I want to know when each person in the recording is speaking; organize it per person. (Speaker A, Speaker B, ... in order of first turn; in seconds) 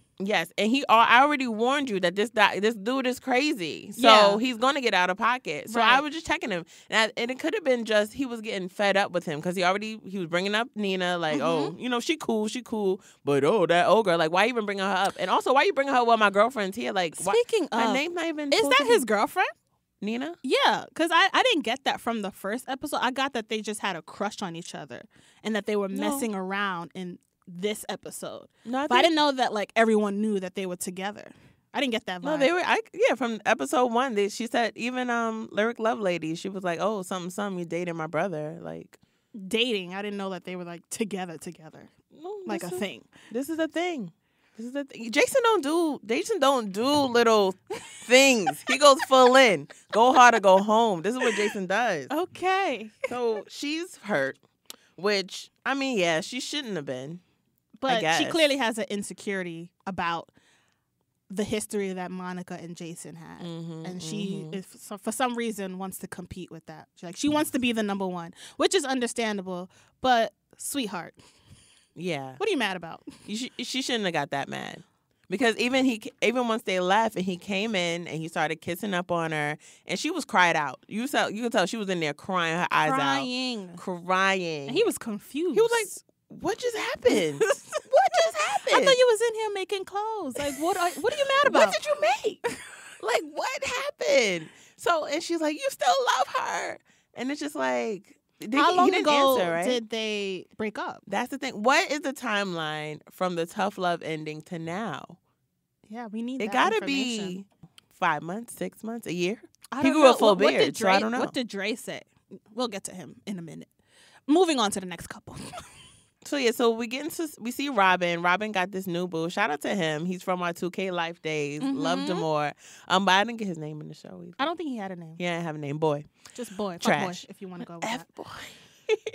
Speaker A: 0.2-19.0, 20.0-20.4, 25.9-26.3, 28.6-29.1, 32.2-39.0, 42.1-52.1, 53.1-54.4, 55.0-57.2, 57.9-58.4, 63.4-64.6, 71.9-72.4, 73.2-84.9, 85.5-89.0, 91.4-92.4, 93.0-99.8, 101.1-105.2, 106.4-111.3, 116.2-124.5, 125.2-126.0, 126.8-128.6
Speaker B: 4.0-4.4, 5.7-6.0, 11.3-11.7, 17.1-19.5, 20.4-32.5, 39.4-41.9, 42.5-43.1, 52.1-53.0, 57.8-60.3, 61.3-71.2, 72.4-73.1, 82.8-83.8, 84.7-85.9, 87.1-87.8, 88.6-91.8, 98.5-101.0, 105.9-107.3, 109.7-113.7, 114.3-115.7, 121.6-122.2, 124.4-125.2, 126.3-128.1